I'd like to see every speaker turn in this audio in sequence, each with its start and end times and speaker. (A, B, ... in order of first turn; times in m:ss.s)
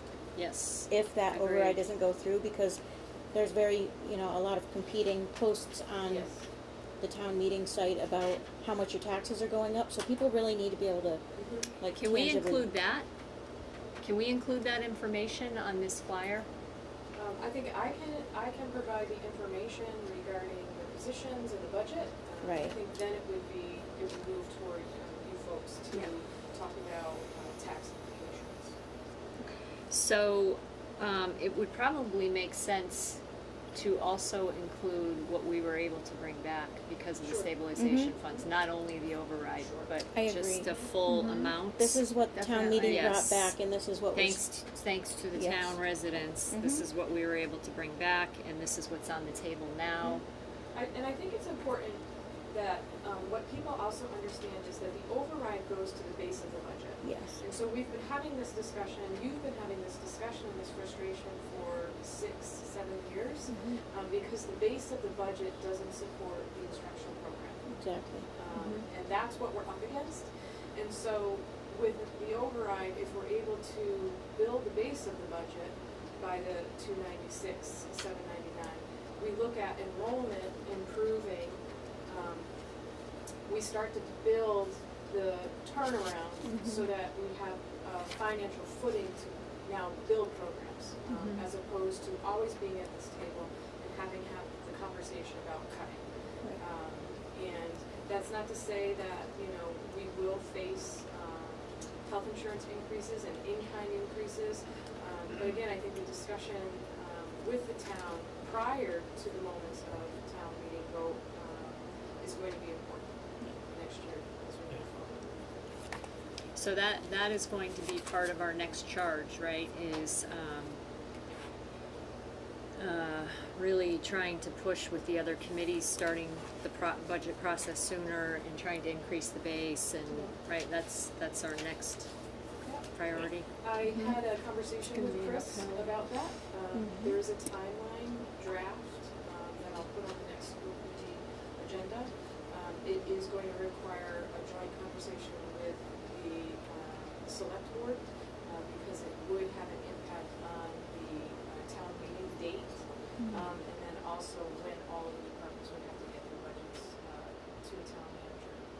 0:00.4-0:01.9 A
0:00.9-0:02.8 B
0:03.3-0:06.3 B
0:06.0-0:06.5 C
0:07.0-0:11.2 B
0:11.4-0:11.8 C
0:11.8-0:12.7 B
0:12.0-0:13.1 A
0:14.0-0:16.5 A
0:17.2-0:28.8 C
0:22.4-0:22.8 B
0:29.9-0:33.2 A
0:33.7-0:43.5 A
0:37.2-0:37.5 C
0:37.8-0:38.1 B
0:38.2-0:38.5 C
0:39.6-0:40.0 C
0:40.2-0:44.4 B
0:40.7-0:41.0 C
0:44.1-0:50.2 A
0:45.3-0:45.8 B
0:46.5-0:46.8 B
0:50.7-1:07.7 C
0:57.0-0:57.4 B
1:03.5-1:03.8 B
1:07.7-1:08.3 B
1:08.3-1:22.5 C
1:08.5-1:08.8 A
1:23.5-1:36.0 C
1:26.4-1:26.9 B
1:31.1-1:31.4 A
1:36.6-1:55.3 C
1:56.6-2:00.8 A
2:02.8-2:12.1 A
2:12.6-2:12.9 C
2:12.9-2:14.1 A
2:13.6-2:38.7 C
2:14.9-2:16.0 A
2:16.7-2:17.2 B
2:33.2-2:33.5 B